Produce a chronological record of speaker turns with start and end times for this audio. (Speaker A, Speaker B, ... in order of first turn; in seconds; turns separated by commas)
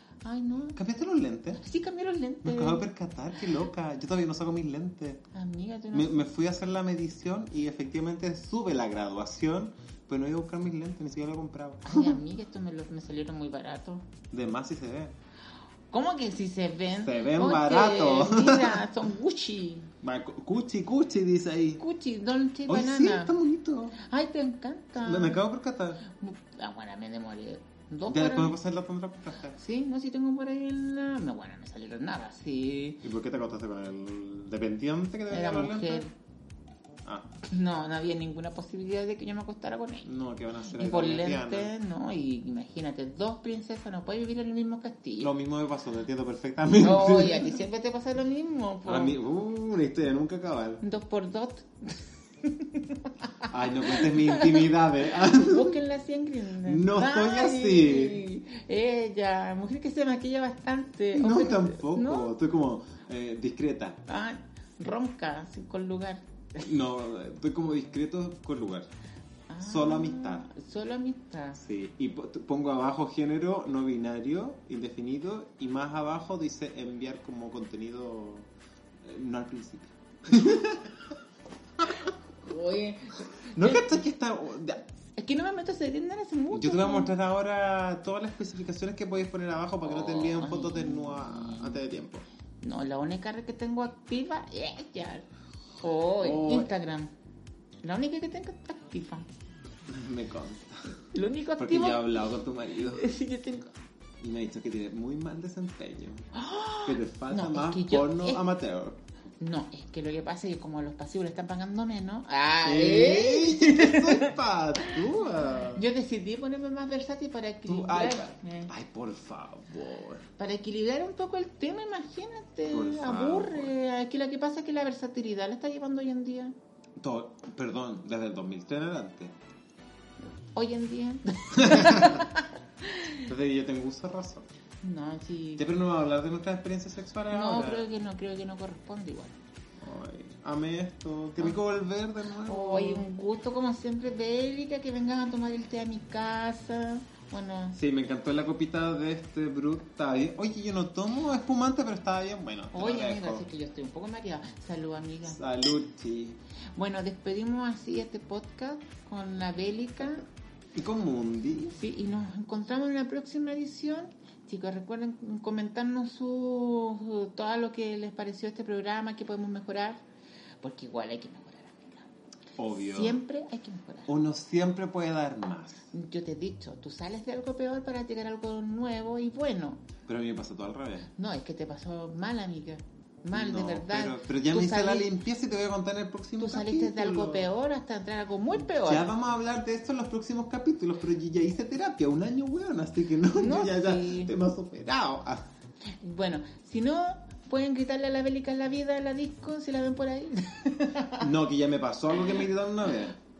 Speaker A: 0.2-0.8, Speaker B: 0.8-1.6, Speaker A: 1.6-2.9, Speaker B: 2.4-5.2, Speaker A: 5.3-6.2, Speaker B: 5.9-12.2, Speaker A: 11.8-14.1, Speaker B: 14.3-15.1, Speaker A: 15.9-19.9, Speaker B: 17.0-18.9, Speaker B: 20.0-21.8, Speaker A: 21.8-23.4, Speaker B: 22.7-24.0, Speaker A: 24.0-25.4, Speaker B: 25.0-26.0, Speaker A: 26.1-28.6, Speaker B: 28.1-29.6, Speaker A: 29.6-33.0, Speaker B: 33.0-36.0, Speaker A: 35.3-36.1, Speaker B: 37.0-37.3, Speaker A: 37.5-40.1, Speaker B: 40.0-41.7, Speaker A: 40.7-45.3, Speaker B: 45.2-47.6, Speaker A: 46.8-49.2, Speaker B: 48.9-50.8, Speaker A: 50.8-62.3, Speaker B: 53.5-55.8, Speaker B: 56.6-58.2, Speaker B: 61.1-64.0, Speaker A: 64.1-66.2, Speaker B: 66.6-68.9, Speaker A: 69.5-71.6, Speaker B: 69.6-70.5, Speaker B: 71.6-78.5, Speaker B: 79.0-81.2, Speaker B: 81.8-82.1, Speaker A: 82.4-84.0, Speaker B: 83.5-84.8, Speaker A: 85.2-87.1, Speaker B: 86.5-92.3, Speaker A: 89.8-91.8, Speaker A: 92.6-95.3, Speaker A: 95.8-97.1, Speaker B: 96.2-96.7, Speaker A: 97.8-99.3, Speaker B: 99.9-101.0, Speaker A: 101.0-102.2, Speaker B: 101.6-103.1, Speaker A: 102.9-103.7, Speaker B: 104.2-106.3, Speaker A: 106.3-108.5, Speaker B: 106.8-109.0, Speaker A: 109.4-118.7, Speaker B: 112.6-115.8, Speaker B: 117.7-120.3, Speaker A: 120.4-126.5, Speaker B: 122.7-123.7, Speaker B: 127.0-129.3, Speaker A: 130.5-133.3, Speaker B: 131.5-132.2, Speaker B: 133.2-134.5, Speaker A: 134.8-135.7, Speaker B: 135.6-137.9, Speaker A: 137.3-139.4, Speaker B: 139.8-143.1, Speaker A: 142.4-147.8, Speaker B: 147.8-153.4, Speaker A: 152.7-155.4, Speaker B: 155.3-156.4, Speaker A: 156.8-160.3, Speaker B: 160.8-161.8, Speaker A: 161.7-170.0, Speaker A: 170.6-172.1, Speaker B: 172.6-173.2, Speaker A: 172.7-174.1, Speaker B: 174.1-175.9, Speaker A: 175.9-179.8, Speaker B: 180.1-181.1, Speaker A: 181.2-185.1, Speaker B: 183.3-187.5, Speaker A: 186.4-189.1, Speaker B: 188.8-195.5, Speaker A: 193.4-194.3, Speaker A: 196.0-201.3, Speaker B: 201.2-203.2